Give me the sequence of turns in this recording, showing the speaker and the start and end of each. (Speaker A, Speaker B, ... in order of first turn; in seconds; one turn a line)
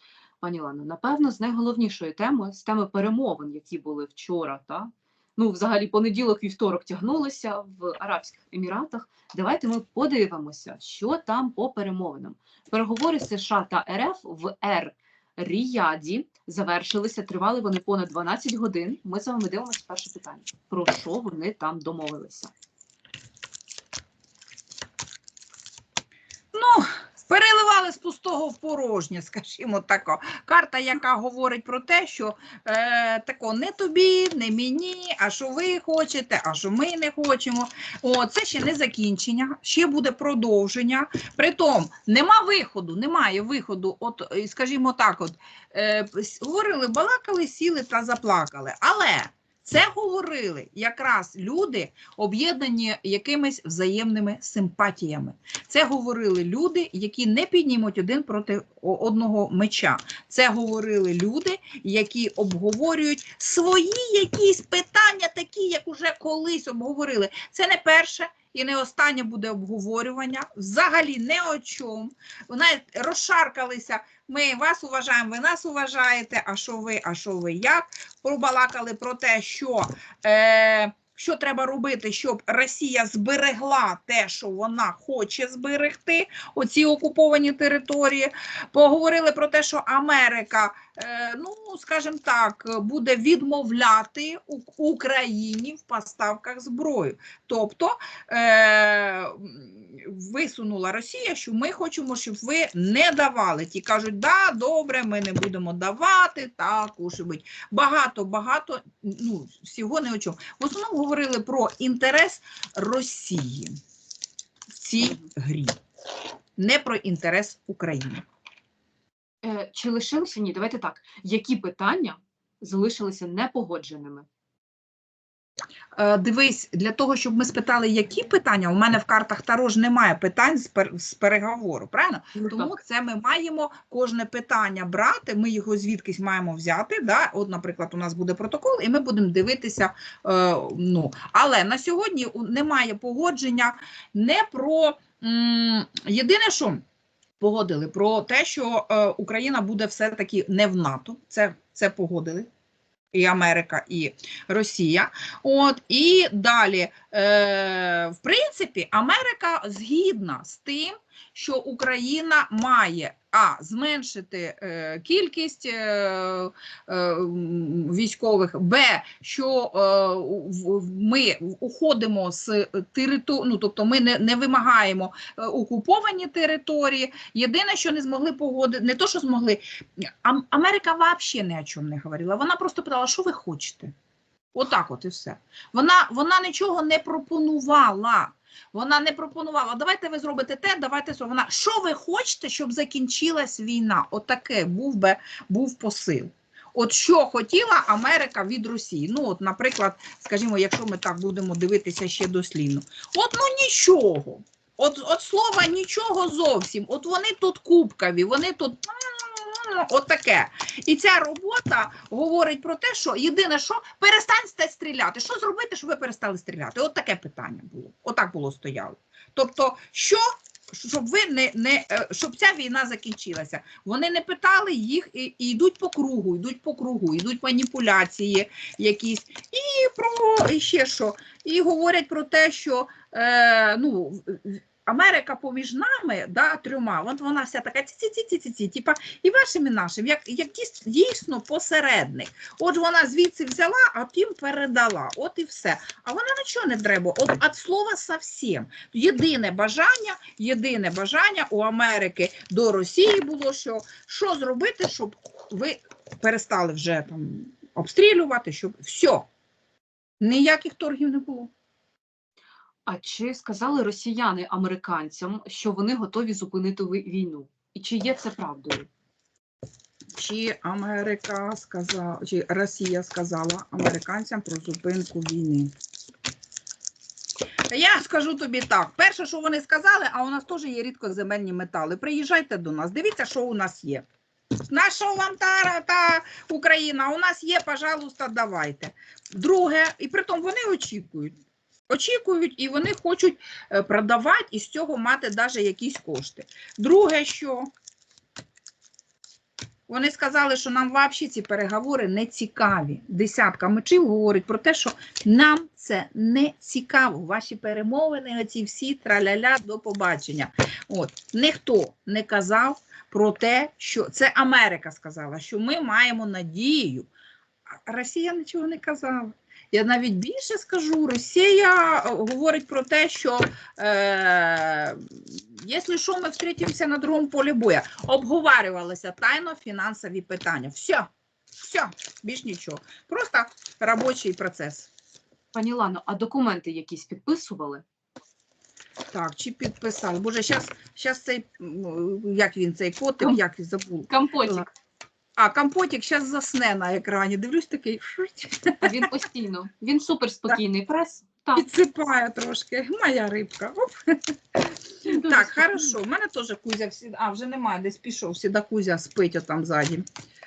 Speaker A: 0.4-22.5
Speaker B: 26.5-113.8
Speaker B: 114.7-115.8
Speaker A: 115.0-115.3
Speaker B: 116.6-118.2
Speaker A: 119.4-124.3
Speaker B: 126.0-146.8
Speaker A: 132.3-132.8
Speaker B: 147.4-152.5
Speaker B: 153.1-183.9
Speaker B: 184.5-259.2
Speaker B: 260.2-261.5
Speaker A: 262.9-268.9
Speaker B: 270.1-275.7
Speaker B: 277.7-284.0
Speaker B: 284.7-291.4
Speaker B: 291.9-297.7
Speaker B: 299.9-317.1
Speaker B: 317.8-334.9
Speaker A: 335.5-337.8
Speaker B: 339.1-344.6
Speaker A: 344.1-344.7
Speaker B: 345.4-349.1
Speaker A: 348.8-351.6
Speaker B: 351.5-360.0
Speaker A: 355.0-355.9